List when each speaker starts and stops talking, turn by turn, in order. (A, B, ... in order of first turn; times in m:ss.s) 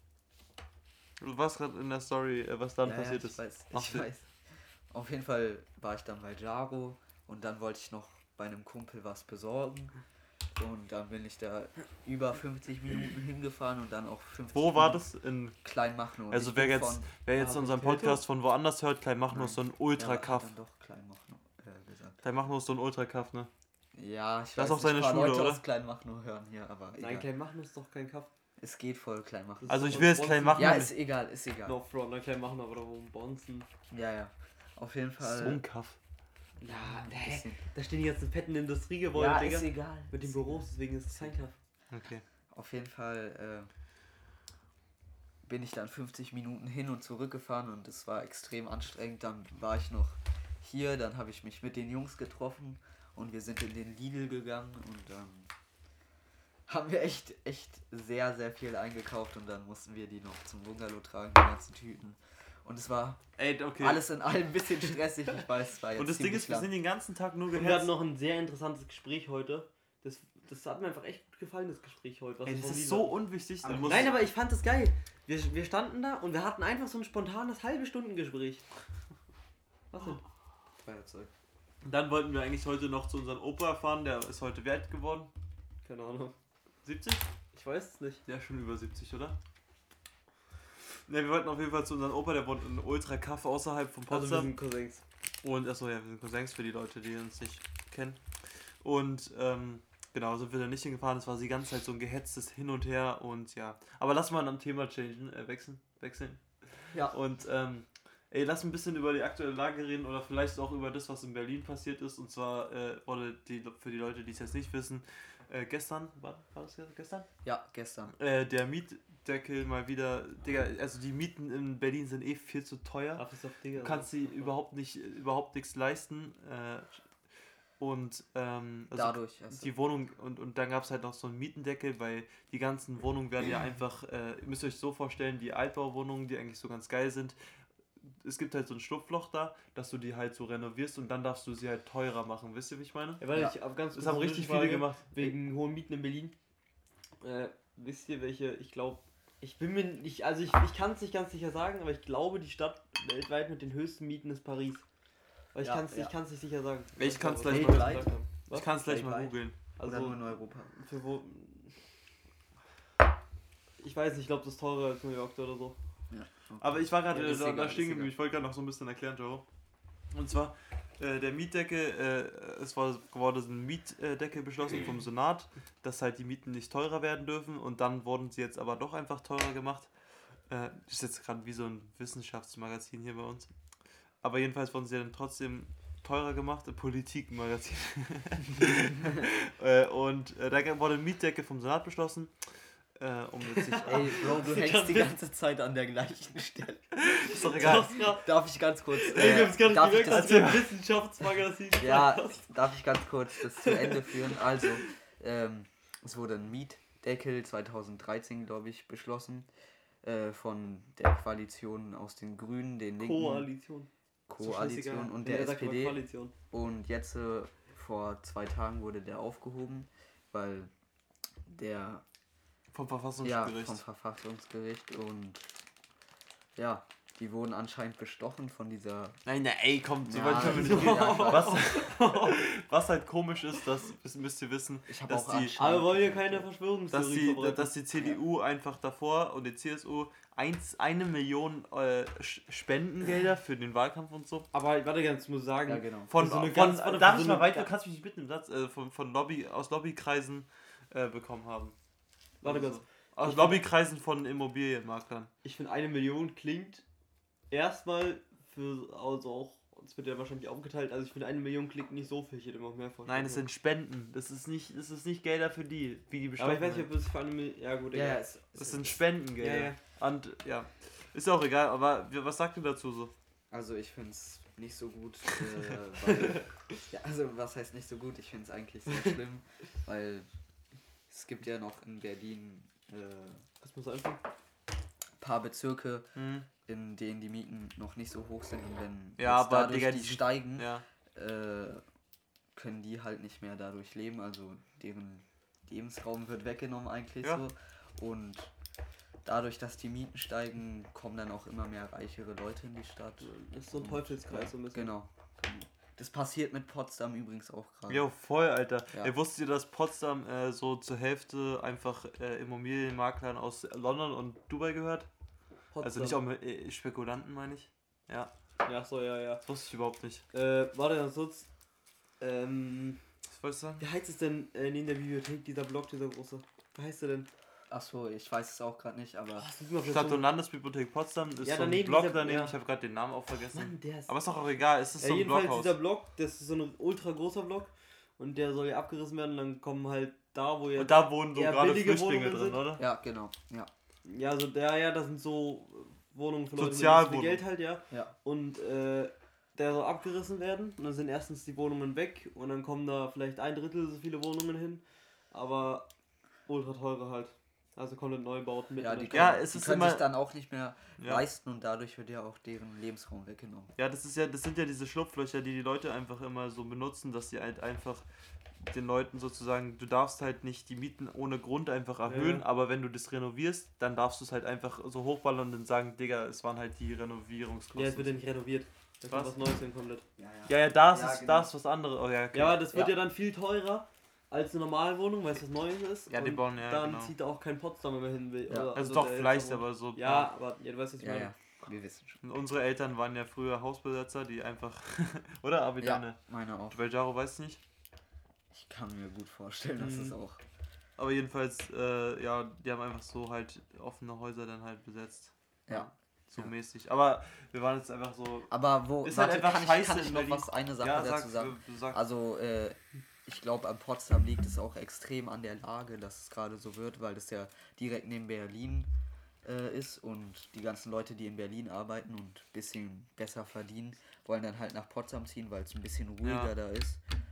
0:01.2-0:04.1 A
0:02.8-0:04.3 B
0:04.9-0:09.9 B
0:10.6-0:15.0 B
0:14.5-0:15.6 A
0:15.6-0:17.1 B
0:16.3-0:20.5 A
0:17.3-0:18.2 C
0:19.3-0:22.2 B
0:22.2-0:23.5 A
0:23.9-0:27.3 B
0:24.6-0:25.6 A
0:27.0-0:28.3 C
0:28.6-0:31.8 B
0:29.6-0:30.9 C
0:29.7-0:30.9 A
0:31.6-0:33.7 C
0:33.9-0:35.6 B
0:35.2-0:36.0 A
0:36.6-0:41.5 C
0:36.6-0:37.6 B
0:39.1-0:41.4 B
0:41.9-0:42.2 A
0:42.5-0:43.7 B
0:45.4-0:55.5 B
0:56.7-1:03.2 B
1:03.4-1:04.0 A
1:03.8-1:06.7 B
1:06.0-1:07.9 A
1:07.5-1:13.2 C
1:12.4-1:14.2 A
1:13.6-1:14.1 B
1:13.8-1:18.6 C
1:19.9-1:20.2 C
1:20.8-1:21.3 B
1:21.8-1:25.3 A
1:25.8-1:26.3 C
1:26.8-1:27.3 A
1:27.5-1:28.2 C
1:28.2-1:29.4 A
1:31.1-1:34.5 A
1:34.1-1:35.0 C
1:35.4-1:57.3 A
1:57.4-1:58.2 B
1:58.2-2:03.2 A
2:03.2-2:04.5 C
2:03.8-2:07.0 A
2:07.8-2:17.3 A
2:08.9-2:09.7 B
2:18.2-2:23.2 A
2:23.2-2:26.3 C
2:23.9-2:25.3 A
2:27.2-2:34.8 C
2:35.5-2:38.7 C
2:35.6-2:36.1 B
2:37.0-2:39.6 A
2:37.4-2:38.1 B
2:38.7-2:40.7 B
2:39.8-2:41.7 C
2:43.8-2:45.8 C
2:46.1-2:48.1 B
2:46.6-2:49.4 A
2:50.1-2:59.9 A
3:00.5-3:03.5 A
3:04.2-3:12.3 A
3:13.0-3:14.1 A
3:13.6-3:15.1 C
3:13.8-3:20.6 B
3:17.0-3:18.0 A
3:17.2-3:18.3 C
3:18.9-3:22.5 C
3:20.0-3:20.8 A
3:21.8-3:29.5 B
3:23.5-3:24.6 C
3:30.0-3:33.5 B
3:33.0-3:33.9 C
3:34.3-3:40.7 B
3:34.4-3:36.3 C
3:41.4-3:42.0 B
3:42.7-3:43.8 A
3:43.2-3:45.5 B
3:46.6-3:49.2 B
3:49.2-3:55.5 A
3:50.0-3:51.7 B
3:50.2-3:52.5 C
3:54.9-3:56.5 B
3:55.6-3:57.7 C
3:56.9-4:04.5 A
4:04.5-4:07.7 C
4:05.6-4:06.1 B
4:06.1-4:11.7 A
4:12.4-4:13.6 C
4:12.4-4:15.3 A
4:15.4-4:16.8 C
4:17.5-4:23.4 C
4:23.0-4:26.9 A
4:26.4-4:28.2 C
4:27.9-4:29.0 B
4:28.5-4:33.1 A
4:29.4-4:29.8 C
4:33.5-4:40.2 B
4:41.1-4:43.4 B
4:43.6-4:44.2 C
4:45.2-4:46.1 B
4:46.2-4:46.5 A
4:46.6-4:51.8 B
4:49.2-4:50.8 A
4:52.5-4:58.5 B
4:59.2-5:08.0 B
5:03.2-5:04.9 C
5:07.9-5:15.1 A
5:15.7-5:16.2 C
5:15.8-5:18.3 A
5:18.6-5:19.4 C
5:19.4-5:20.2 A
5:20.3-5:21.5 C
5:22.2-5:23.0 C
5:23.3-5:23.8 A
5:23.8-5:27.3 C
5:27.7-5:29.4 B
5:29.4-5:30.3 C
5:29.8-5:35.8 A
5:31.4-5:32.5 C
5:33.5-5:34.4 C
5:35.0-5:42.6 C
5:40.8-5:42.8 A
5:42.8-5:43.7 B
5:44.0-5:55.9 C
5:46.6-5:47.4 A
5:56.5-5:59.4 C
5:58.8-6:03.7 B
5:59.1-6:00.1 A
6:01.0-6:01.2 A
6:03.8-6:08.0 A
6:08.6-6:18.2 A
6:12.0-6:12.4 C
6:17.7-6:20.0 C
6:19.1-6:19.3 A
6:20.2-6:21.5 B
6:20.5-6:22.6 A
6:22.3-6:31.3 C
6:26.1-6:27.1 A
6:28.5-6:28.8 B
6:28.7-6:30.3 A
6:31.0-6:32.2 B
6:32.2-6:36.2 A
6:35.8-6:36.8 B
6:36.7-6:37.6 A
6:38.5-6:40.4 B
6:39.8-6:40.2 C
6:41.0-6:52.0 A
6:45.7-6:46.5 B
6:48.5-6:58.9 B
6:59.4-7:07.0 B
7:06.2-7:06.5 A